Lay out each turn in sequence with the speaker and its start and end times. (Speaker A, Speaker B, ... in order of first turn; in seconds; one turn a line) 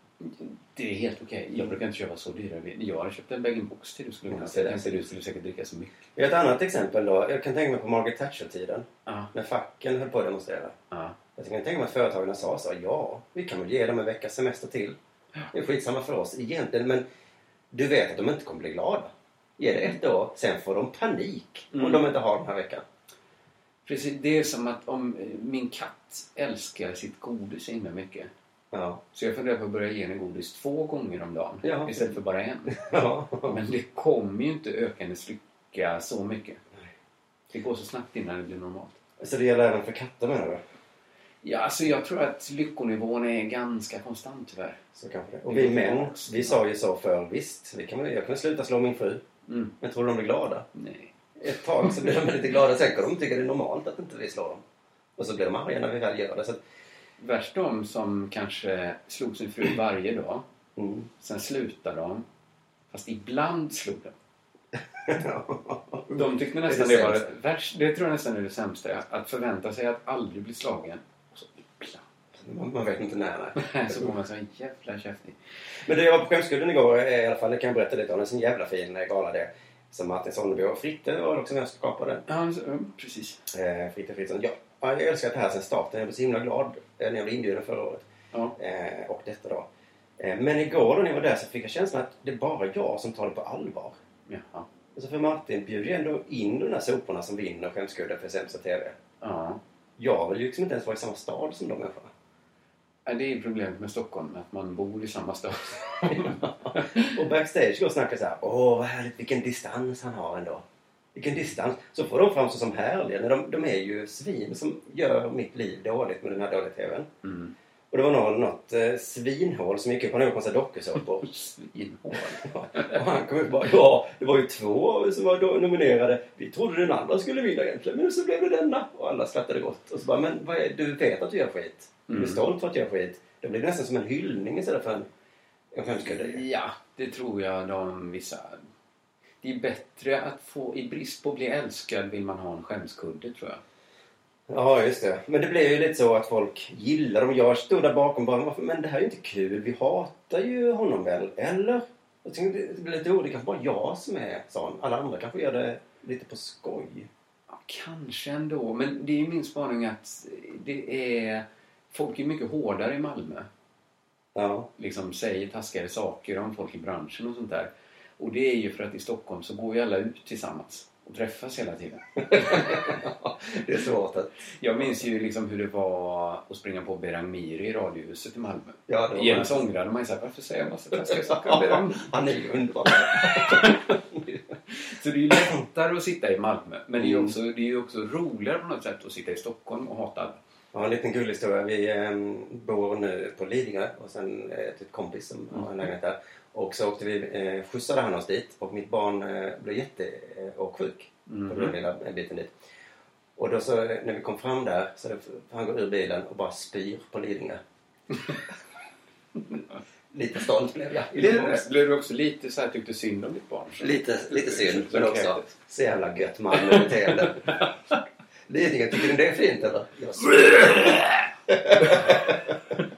Speaker A: 0.2-6.0
Speaker B: 4.3-5.1
Speaker B: 6.2-10.7
Speaker A: 10.9-11.2
Speaker B: 11.4-15.0
Speaker B: 15.5-17.1
Speaker B: 17.7-22.8
Speaker A: 21.7-22.1
Speaker A: 23.9-28.3
Speaker B: 28.7-29.0
Speaker A: 29.1-32.8
Speaker B: 31.6-32.1
Speaker B: 32.7-33.6
Speaker A: 33.5-36.6
Speaker A: 37.5-39.0
Speaker B: 39.2-40.6
Speaker A: 41.4-44.8
Speaker B: 45.0-49.2
Speaker A: 45.5-46.6
Speaker A: 49.5-49.7
Speaker B: 49.8-50.7
Speaker A: 50.8-51.1
Speaker B: 51.4-54.6
Speaker A: 51.8-52.3
Speaker B: 55.2-56.6
Speaker A: 57.2-60.5
Speaker B: 60.8-61.1
Speaker A: 61.2-62.2
Speaker A: 62.9-64.2
Speaker B: 65.1-67.3
Speaker A: 66.1-72.0
Speaker B: 72.3-74.2
Speaker A: 73.6-75.4
Speaker B: 75.8-82.2
Speaker A: 82.3-83.5
Speaker B: 83.5-89.7
Speaker B: 90.2-94.0
Speaker A: 94.3-94.7
Speaker B: 95.0-99.0
Speaker A: 99.2-99.6
Speaker B: 100.0-102.1
Speaker A: 103.1-107.1
Speaker B: 106.1-117.1
Speaker A: 117.2-117.5
Speaker B: 117.9-121.3
Speaker A: 121.2-123.0
Speaker B: 122.5-135.1
Speaker A: 132.1-132.4
Speaker B: 135.7-136.4
Speaker A: 136.1-138.6
Speaker A: 139.4-143.6
Speaker B: 144.5-157.1
Speaker A: 157.5-163.5
Speaker B: 164.3-164.7
Speaker A: 164.8-172.9
Speaker B: 172.3-174.9
Speaker A: 174.6-182.0
Speaker B: 178.9-179.7
Speaker B: 180.9-184.2
Speaker A: 183.3-183.8
Speaker A: 184.7-190.4
Speaker B: 187.0-187.3
Speaker B: 190.7-202.5
Speaker A: 201.3-201.8
Speaker B: 203.4-207.6
Speaker B: 210.1-211.7
Speaker A: 211.1-215.5
Speaker B: 213.8-217.6
Speaker A: 216.5-217.7
Speaker B: 218.5-222.4
Speaker A: 220.4-221.2
Speaker A: 221.8-222.1